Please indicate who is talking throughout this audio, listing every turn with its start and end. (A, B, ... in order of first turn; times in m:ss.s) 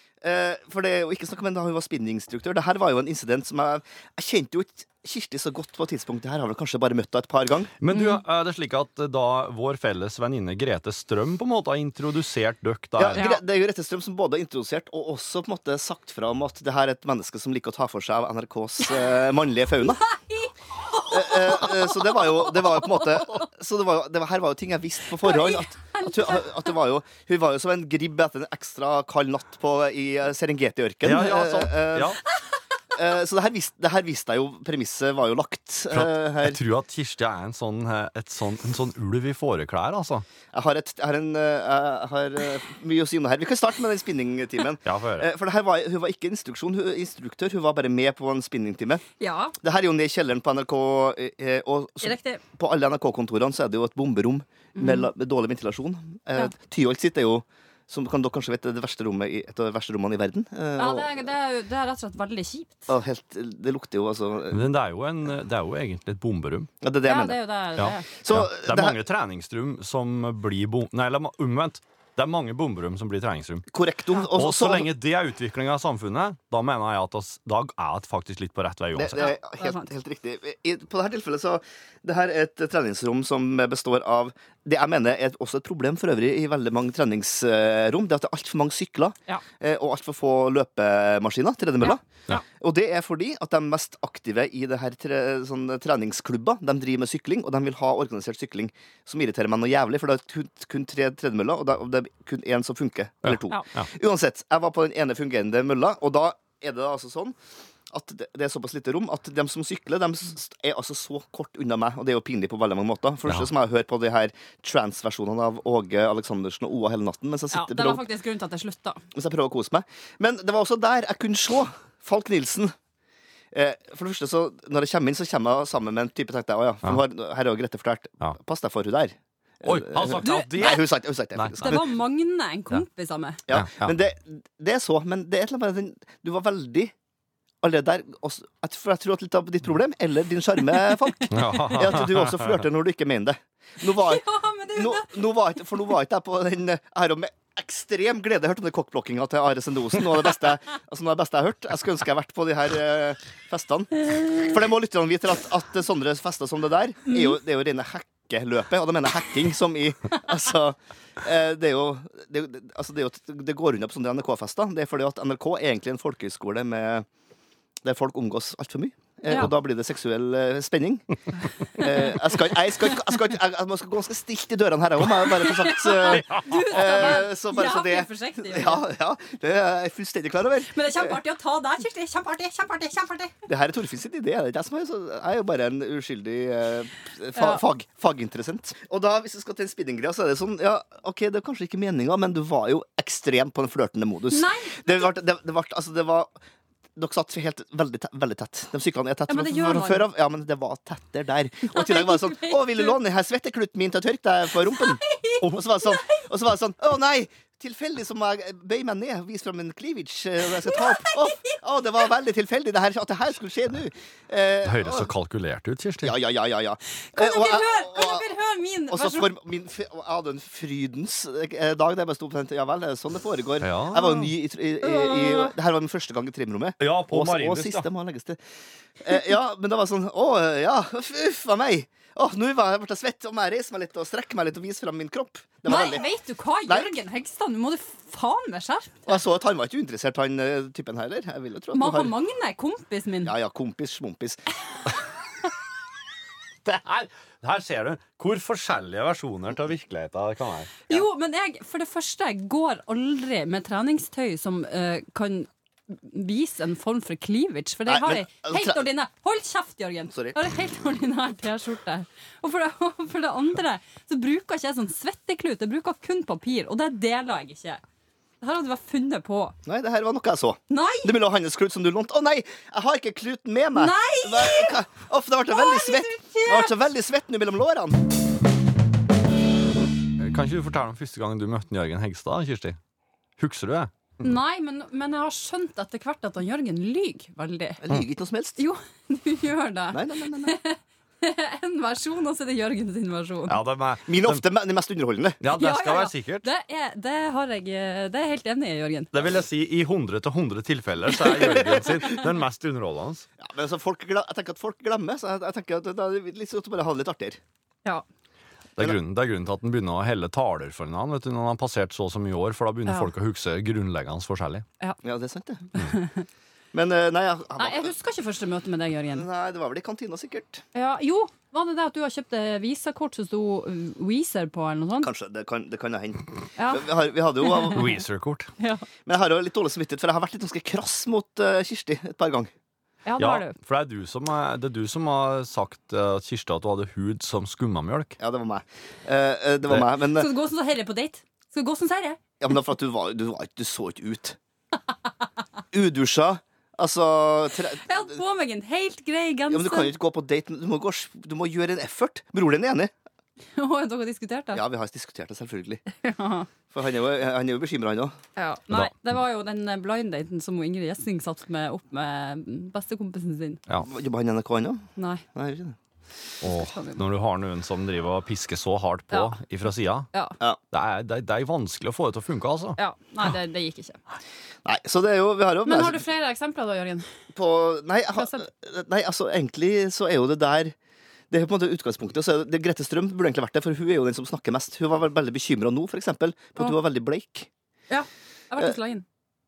0:00.2-0:07.7 A
0:07.8-0:13.2 B
0:07.9-0:08.2 C
0:13.0-0:20.0 A
0:13.1-0:13.4 C
0:20.0-0:22.5 C
0:21.1-0:32.2 A
0:25.2-0:26.6 C
0:31.0-0:32.2 B
0:32.9-0:36.6 A
0:35.9-0:40.2 B
0:40.5-0:49.0 A
0:44.8-0:45.3 B
0:49.2-0:49.6 C
0:49.6-1:01.2 A
0:52.0-0:52.4 C
0:54.8-0:55.1 C
1:00.8-1:02.9 C
1:02.9-1:04.7 A
1:04.5-1:06.7 B
1:06.8-1:07.4 A
1:07.1-1:08.1 C
1:07.8-1:13.7 B
1:08.1-1:09.0 A
1:13.7-1:14.9 A
1:14.3-1:19.3 B
1:19.0-1:32.0 A
1:19.2-1:19.9 C
1:31.8-1:32.4 C
1:32.6-1:47.4 A
1:43.2-1:43.9 B
1:47.9-1:58.0 A
1:57.5-1:59.0 C
1:59.1-2:02.7 A
2:03.5-2:11.8 A
2:09.6-2:10.8 B
2:10.2-2:10.9 C
2:11.4-2:11.9 B
2:11.6-2:13.4 C
2:13.5-2:16.9 A
2:13.5-2:14.0 B
2:17.6-2:24.2 A
2:21.0-2:21.6 C
2:21.3-2:22.6 B
2:23.9-2:25.1 C
2:24.8-2:47.1 A
2:37.1-2:37.4 C
2:47.8-2:51.1 A
2:51.8-3:01.2 A
2:51.8-2:52.2 C
2:55.2-2:58.9 C
2:56.1-2:56.5 B
3:00.7-3:03.3 C
3:03.5-3:16.3 A
3:07.4-3:07.6 C
3:14.3-3:15.1 C
3:17.0-3:35.1 A
3:19.3-3:20.1 C
3:21.7-3:23.0 C
3:24.8-3:26.2 C
3:25.4-3:25.6 B
3:30.5-3:31.6 C
3:34.6-3:36.2 B
3:36.0-3:38.3 A
3:37.1-3:39.3 C
3:38.9-3:48.4 A
3:43.6-3:44.3 B
3:44.8-3:45.6 C
3:46.8-3:47.9 B
3:49.0-3:56.0 A
3:55.7-3:59.1 C
3:59.1-4:02.2 A
4:01.7-4:03.3 C
4:03.2-4:04.4 A
4:06.6-4:10.8 B
4:10.9-4:27.8 C
4:17.9-4:18.8 A
4:28.4-4:29.6 C
4:29.7-4:38.0 A
4:30.7-4:31.1 C
4:33.8-4:34.7 C
4:35.5-4:36.8 C
4:40.2-4:42.8 B
4:43.4-4:43.9 B
4:44.2-4:47.8 C
4:47.8-4:48.6 A
4:48.6-4:53.6 C
4:49.9-4:50.6 A
4:53.5-4:54.4 B
4:54.1-4:55.4 A
4:55.4-4:56.4 B
4:55.5-4:59.1 C
4:59.1-5:03.3 B
5:01.2-5:01.9 A
5:03.4-5:07.4 A
5:08.8-5:14.6 B
5:15.0-5:15.6 A
5:15.8-5:16.2 C
5:16.7-5:17.9 A
5:17.6-5:19.3 C
5:19.1-5:20.6 A
5:20.7-5:25.1 C
5:25.0-5:28.0 A
5:26.6-5:26.9 C
5:27.4-5:27.9 C
5:27.7-5:28.5 B
5:28.6-5:28.9 C
5:29.0-5:32.5 A
5:33.1-5:33.6 C
5:33.2-5:38.2 B
5:38.2-5:40.3 A
5:40.1-5:42.2 C
5:42.4-5:44.4 A
5:45.7-5:48.2 A
5:47.8-5:49.9 C
5:49.5-5:52.9 A
5:53.6-5:54.6 C
5:54.5-5:55.8 A
5:56.0-5:56.5 C
5:56.7-5:58.2 A
5:58.4-6:03.6 C
6:03.8-6:05.8 A
6:05.0-6:05.2 C
6:06.4-6:10.1 B
6:06.4-6:07.0 C
6:09.1-6:09.4 C
6:10.1-6:10.4 C
6:10.7-6:12.8 B
6:12.8-6:14.0 C
6:14.6-6:16.0 A
6:15.6-6:17.0 C
6:17.3-6:20.8 A
6:18.2-6:18.4 C
6:21.3-6:27.5 A
6:27.9-6:29.0 C